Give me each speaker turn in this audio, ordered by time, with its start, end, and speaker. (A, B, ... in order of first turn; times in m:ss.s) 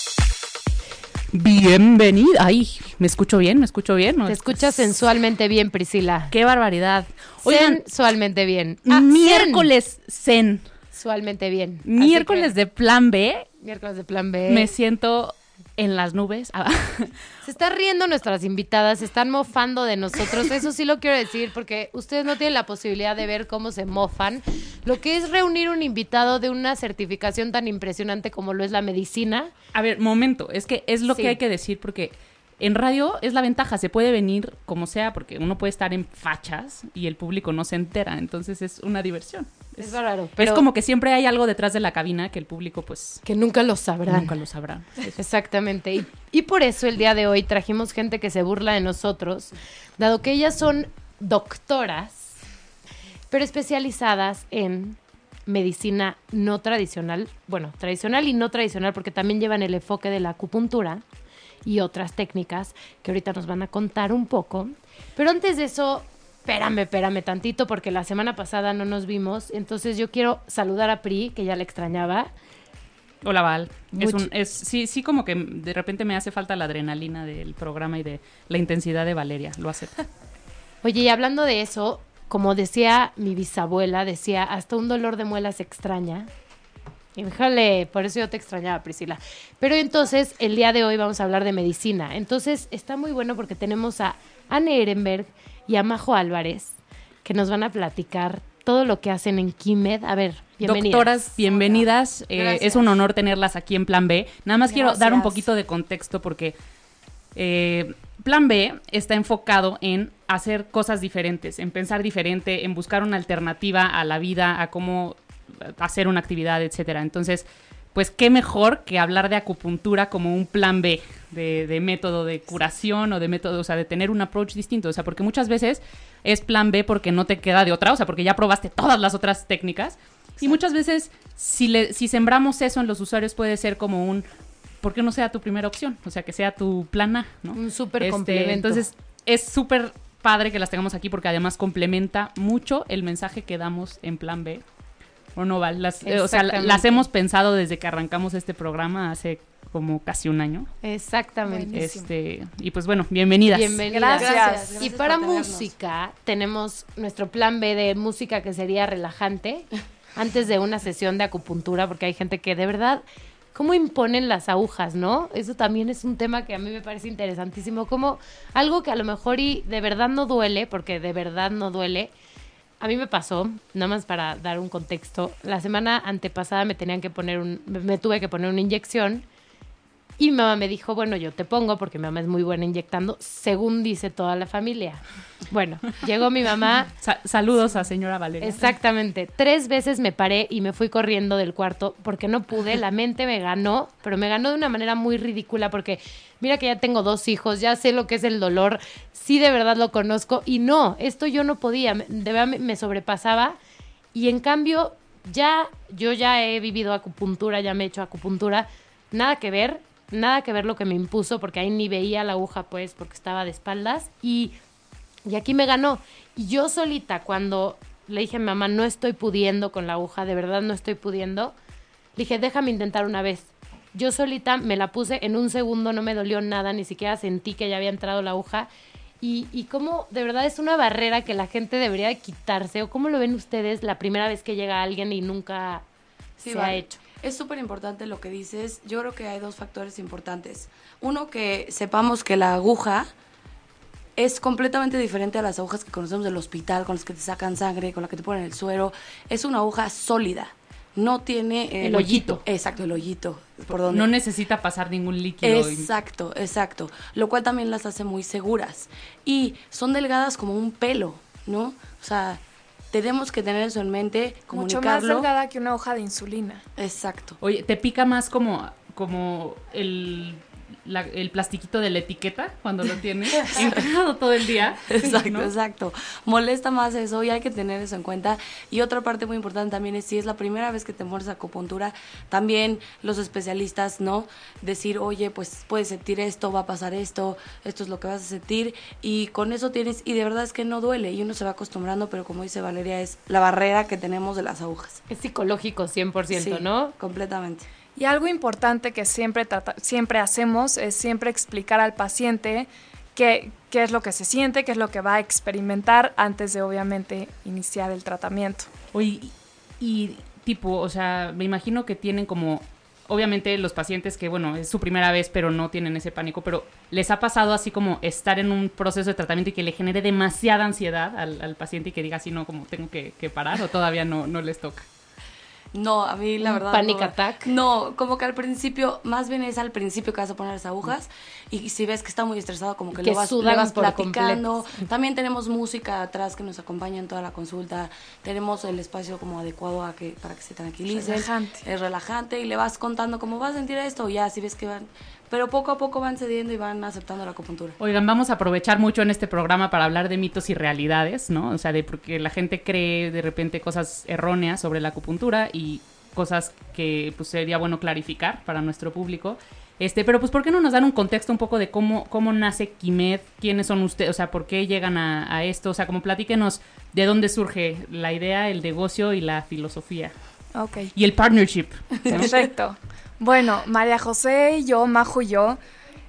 0:01.3-0:05.0 A
0:04.3-0:06.3 B
0:06.3-0:07.8 A
0:07.4-0:09.7 B
0:08.9-0:10.7 A
0:10.9-0:12.5 B
0:11.8-0:13.5 A
0:13.6-0:14.7 B
0:14.5-0:17.2 A
0:17.4-0:29.5 B
0:29.7-0:43.2 A
0:31.1-0:31.4 B
0:39.8-0:40.6 B
0:43.2-0:44.3 B
0:44.1-0:45.2 A
0:45.2-0:52.4 B
0:53.3-1:01.0 B
1:01.6-1:12.3 B
1:13.2-1:20.0 A
1:13.9-1:14.3 B
1:20.8-1:26.3 B
1:27.2-1:41.4 B
1:40.6-1:46.6 A
1:44.7-1:45.5 C
1:47.4-2:14.2 A
2:14.8-2:24.6 A
2:17.5-2:18.8 B
2:25.4-2:30.7 A
2:26.0-2:27.1 B
2:30.8-2:31.8 B
2:31.4-2:32.1 C
2:31.7-2:33.9 A
2:33.5-2:43.0 B
2:33.9-2:34.9 C
2:34.1-2:35.7 D
2:43.5-2:52.1 B
2:52.8-2:59.2 B
3:00.2-3:06.9 B
3:07.0-3:08.7 A
3:08.4-3:23.6 B
3:24.1-3:34.6 B
3:35.2-3:41.5 B
3:42.2-3:48.7 B
3:49.2-3:55.8 B
3:56.4-4:03.1 D
3:56.5-3:57.0 B
4:04.2-4:14.1 D
4:11.8-4:12.4 B
4:13.9-4:15.9 A
4:15.4-4:22.4 D
4:22.9-4:25.3 D
4:24.5-4:26.6 C
4:26.8-4:27.4 D
4:27.4-4:35.5 A
4:33.5-4:33.8 D
4:34.9-4:55.0 D
4:55.1-4:56.9 B
4:56.3-4:57.7 D
4:58.0-5:08.7 C
5:08.9-5:24.9 A
5:25.7-5:47.8 D
5:26.4-5:27.5 B
5:33.0-5:34.4 B
5:40.9-5:41.6 C
5:47.8-6:10.1 A
6:10.6-6:10.9 C
6:11.0-6:12.3 A
6:12.1-6:15.6 C